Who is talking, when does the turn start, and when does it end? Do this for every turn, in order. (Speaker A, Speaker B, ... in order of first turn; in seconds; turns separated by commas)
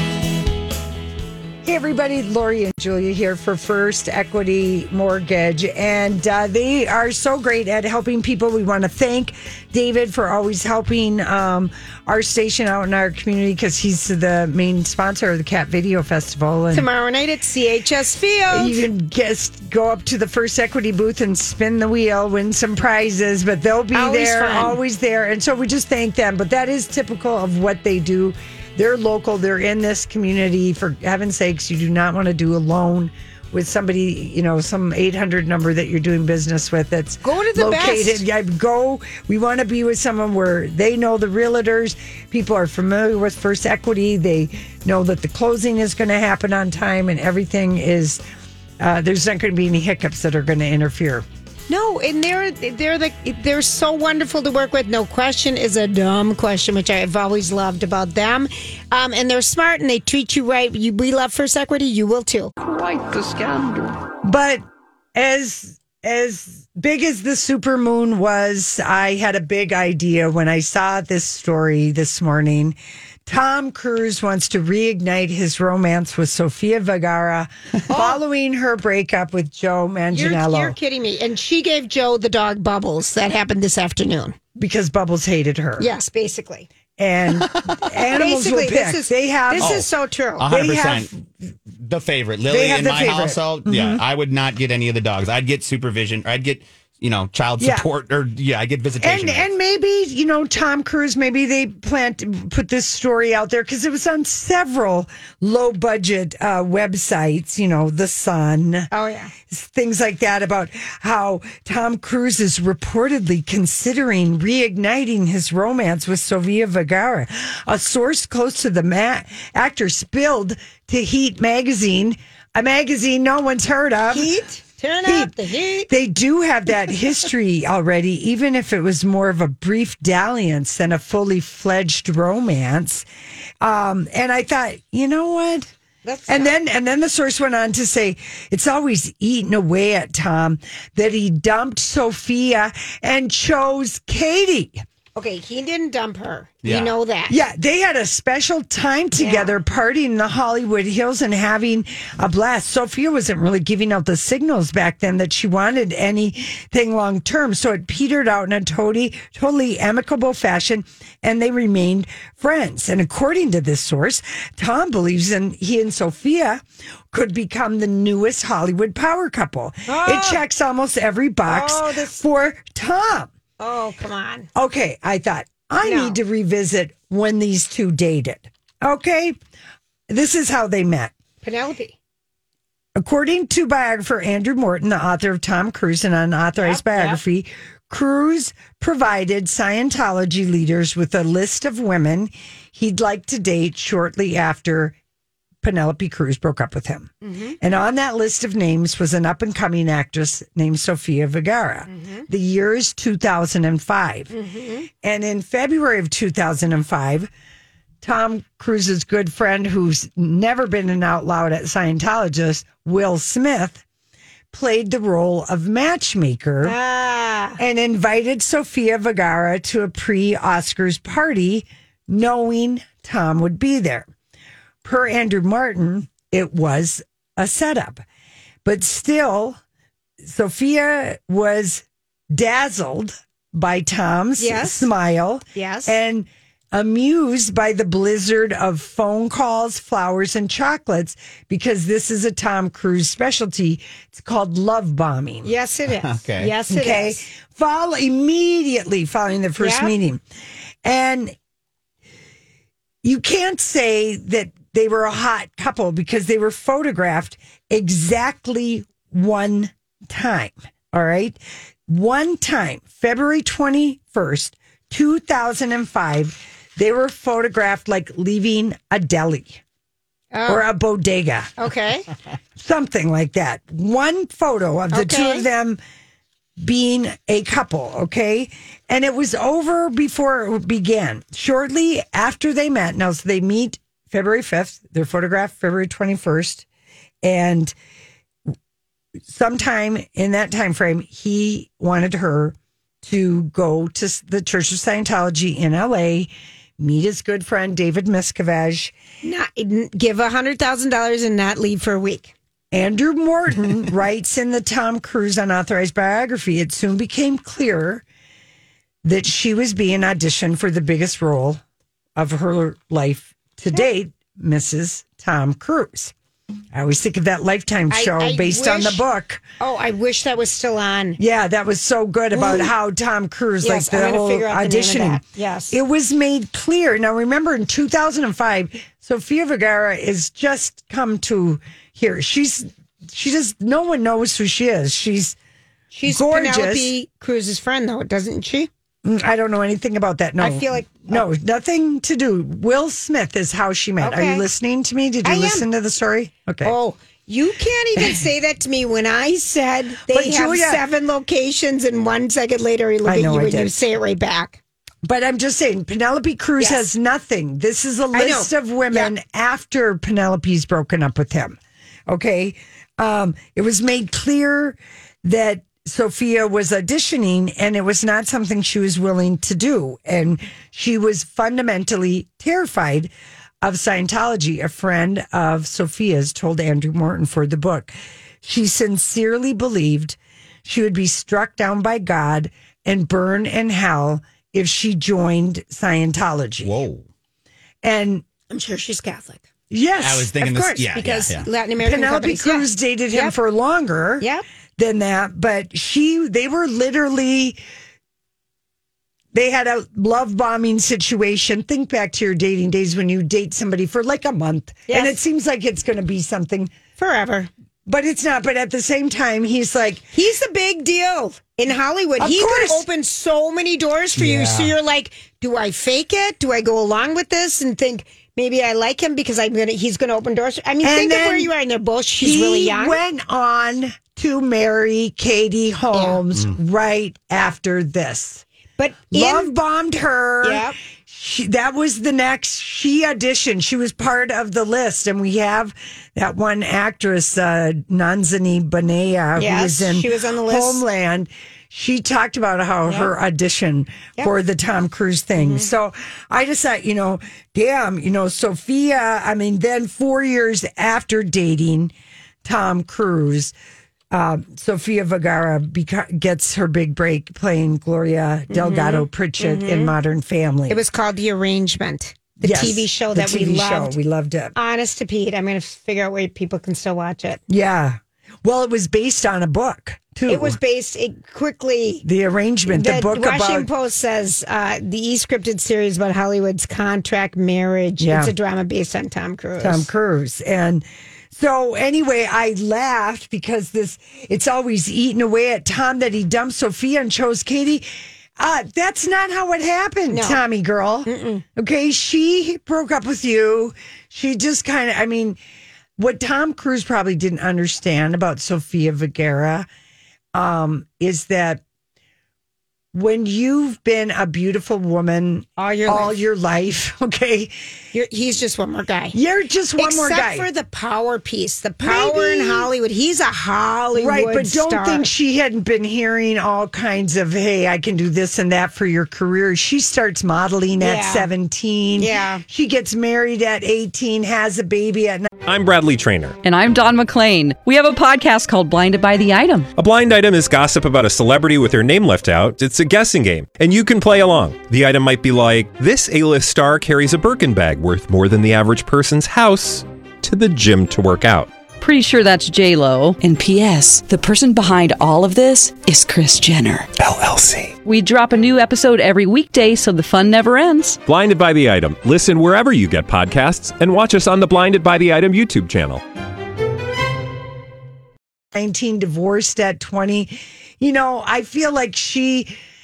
Speaker A: 1.6-16.9, Speaker B: 16.7-18.8, Speaker A: 18.5-48.2, Speaker B: 23.9-24.8, Speaker B: 37.2-38.2, Speaker A: 48.8-51.2, Speaker B: 51.7-62.5, Speaker A: 62.6-64.6, Speaker A: 65.2-72.8, Speaker A: 73.3-80.8, Speaker B: 77.9-78.2, Speaker B: 80.1-84.4, Speaker A: 84.6-85.9, Speaker B: 85.8-86.7, Speaker A: 87.0-89.8, Speaker C: 87.4-87.8, Speaker B: 88.1-90.5, Speaker C: 89.6-89.9, Speaker C: 90.4-91.1, Speaker A: 90.5-91.2, Speaker C: 91.8-99.5, Speaker A: 92.5-94.0, Speaker A: 97.6-97.9, Speaker A: 99.0-108.9, Speaker B: 108.9-109.3, Speaker A: 109.5-124.3, Speaker B: 124.1-125.9, Speaker A: 125.1-125.3, Speaker A: 125.9-133.1, Speaker A: 133.6-135.7, Speaker B: 136.1-136.5, Speaker A: 136.3-144.8, Speaker B: 145.2-147.4, Speaker C: 146.6-146.9, Speaker A: 147.3-173.3, Speaker B: 149.2-149.5, Speaker B: 169.9-170.4, Speaker B: 171.5-172.2, Speaker B: 173.6-174.5, Speaker A: 174.6-179.4, Speaker B: 175.8-176.2, Speaker A: 180.1-181.1, Speaker B: 181.4-181.9, Speaker A: 183.0-195.0, Speaker B: 186.6-187.2, Speaker A: 195.6-204.3, Speaker B: 197.2-197.6, Speaker B: 201.9-202.3, Speaker B: 204.3-204.9, Speaker A: 205.0-207.3, Speaker A: 208.0-213.8, Speaker A: 214.5-216.8, Speaker B: 216.6-217.6, Speaker A: 217.6-224.1, Speaker A: 224.8-228.0, Speaker A: 228.7-229.6, Speaker A: 230.2-245.5, Speaker B: 234.4-234.9, Speaker B: 235.6-235.9, Speaker B: 245.4-247.2, Speaker C: 245.9-246.5, Speaker A: 246.7-250.2, Speaker B: 249.6-249.9, Speaker A: 250.8-251.3, Speaker A: 253.0-269.6, Speaker B: 270.3-270.6, Speaker A: 270.5-271.5, Speaker B: 271.6-272.1, Speaker A: 272.6-275.8, Speaker B: 274.9-275.5, Speaker A: 276.6-286.6, Speaker A: 287.2-287.8, Speaker A: 289.3-298.9, Speaker B: 299.2-302.3, Speaker A: 302.7-308.0, Speaker A: 309.0-311.6, Speaker A: 312.2-316.1, Speaker A: 316.7-319.4, Speaker B: 317.9-319.0, Speaker B: 319.6-321.2, Speaker A: 321.2-335.4, Speaker B: 322.3-322.7, Speaker B: 323.6-325.8, Speaker B: 335.9-338.7, Speaker A: 336.1-336.9, Speaker A: 339.1-346.7, Speaker B: 340.4-341.2, Speaker B: 344.0-344.5, Speaker B: 345.2-345.7, Speaker B: 346.6-354.6, Speaker A: 350.1-350.8, Speaker A: 353.1-353.7, Speaker A: 355.0-361.6, Speaker B: 358.1-359.1, Speaker A: 362.1-373.1, Speaker A: 373.6-377.9, Speaker A: 378.4-386.7, Speaker C: 386.6-387.1, Speaker A: 387.8-388.3, Speaker B: 388.5-389.4, Speaker A: 389.7-390.3, Speaker C: 390.0-391.4, Speaker B: 390.4-393.4, Speaker A: 391.8-394.2, Speaker A: 394.8-397.6, Speaker A: 399.3-406.7, Speaker B: 404.9-405.2, Speaker B: 407.0-407.5, Speaker A: 407.9-410.1, Speaker B: 410.1-423.0, Speaker A: 412.2-412.8, Speaker A: 414.2-414.6, Speaker A: 420.8-421.5, Speaker A: 422.2-428.4, Speaker B: 425.9-426.2, Speaker B: 428.8-429.5, Speaker A: 429.1-451.9, Speaker B: 430.4-430.8, Speaker B: 439.4-440.8, Speaker B: 442.9-443.1, Speaker B: 445.4-445.7, Speaker A: 452.4-453.5, Speaker A: 454.1-460.8, Speaker B: 458.5-459.9, Speaker B: 460.7-464.0, Speaker A: 462.4-464.5, Speaker B: 464.6-467.4, Speaker A: 467.5-470.6, Speaker B: 470.3-472.1, Speaker A: 472.1-473.7, Speaker B: 472.7-479.9, Speaker A: 478.0-478.3, Speaker A: 479.6-487.9, Speaker A: 488.4-495.4, Speaker B: 490.1-490.4, Speaker B: 491.1-491.4, Speaker A: 496.0-499.7, Speaker A: 500.3-501.6, Speaker A: 502.9-507.5, Speaker B: 505.6-506.2, Speaker B: 507.9-509.2, Speaker A: 509.1-510.5, Speaker B: 509.8-515.1, Speaker A: 511.8-512.7, Speaker A: 514.0-525.3, Speaker B: 520.8-521.3, Speaker B: 522.0-522.4, Speaker D: 525.5-526.4, Speaker E: 526.4-529.7, Speaker D: 529.8-541.5, Speaker E: 541.8-546.9, Speaker D: 547.1-547.5, Speaker E: 547.8-551.0, Speaker D: 551.0-556.0, Speaker A: 558.5-562.6